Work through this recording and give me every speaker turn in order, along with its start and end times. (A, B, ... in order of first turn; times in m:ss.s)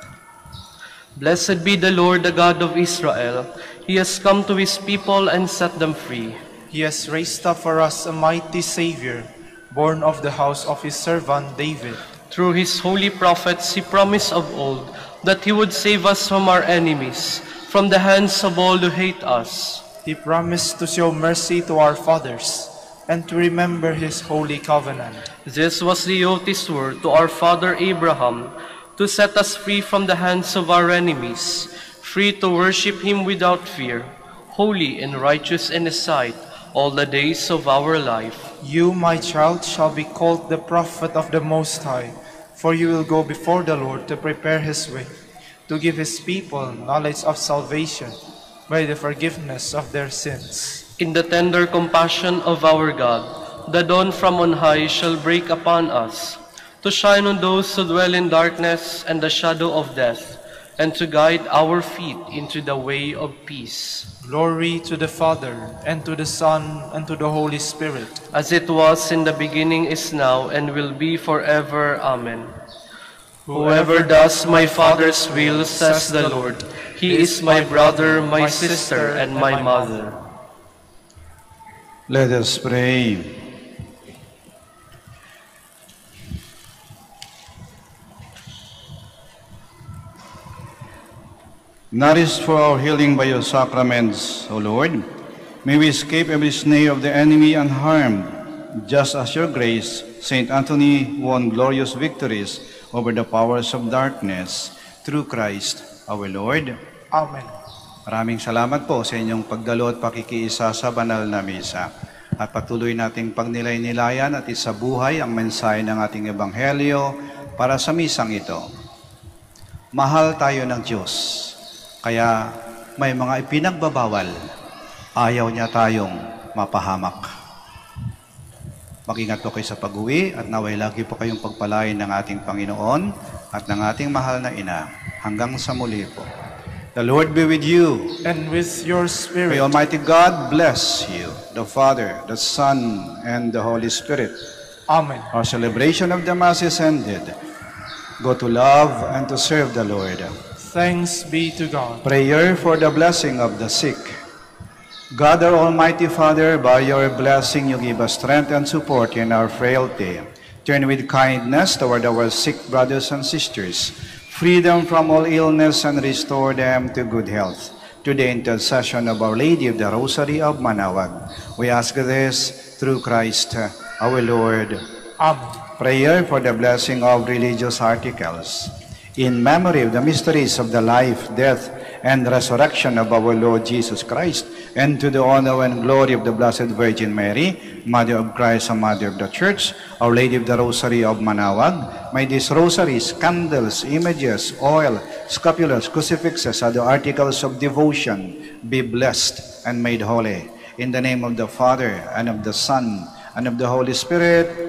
0:01.1-0:06.4 A
0:06.7-0:12.0 B
0:12.3-0:19.8 A
0:20.0-0:25.3 B
0:25.4-0:38.5 A
0:38.6-0:45.1 B
0:45.7-0:50.8 B
0:51.0-1:04.1 A
1:04.2-1:08.2 B
1:08.3-1:12.6 A
1:13.4-1:20.2 B
1:13.5-1:20.2 A
1:22.1-1:23.4 C
1:31.9-1:35.1 C
1:35.6-1:46.8 C
1:47.1-1:47.5 B
1:48.1-1:58.6 C
1:59.9-2:04.4 C
2:05.2-2:07.3 C
2:09.0-2:16.3 C
2:16.9-2:18.1 C
2:18.2-2:19.7 B
2:19.5-2:24.4 C
2:24.9-2:25.3 B
2:25.3-2:27.4 C
2:28.2-2:30.3 C
2:30.6-2:32.0 B
2:32.0-2:34.2 C
2:35.1-2:54.8 C
2:55.2-2:55.6 B
2:55.8-3:24.6 C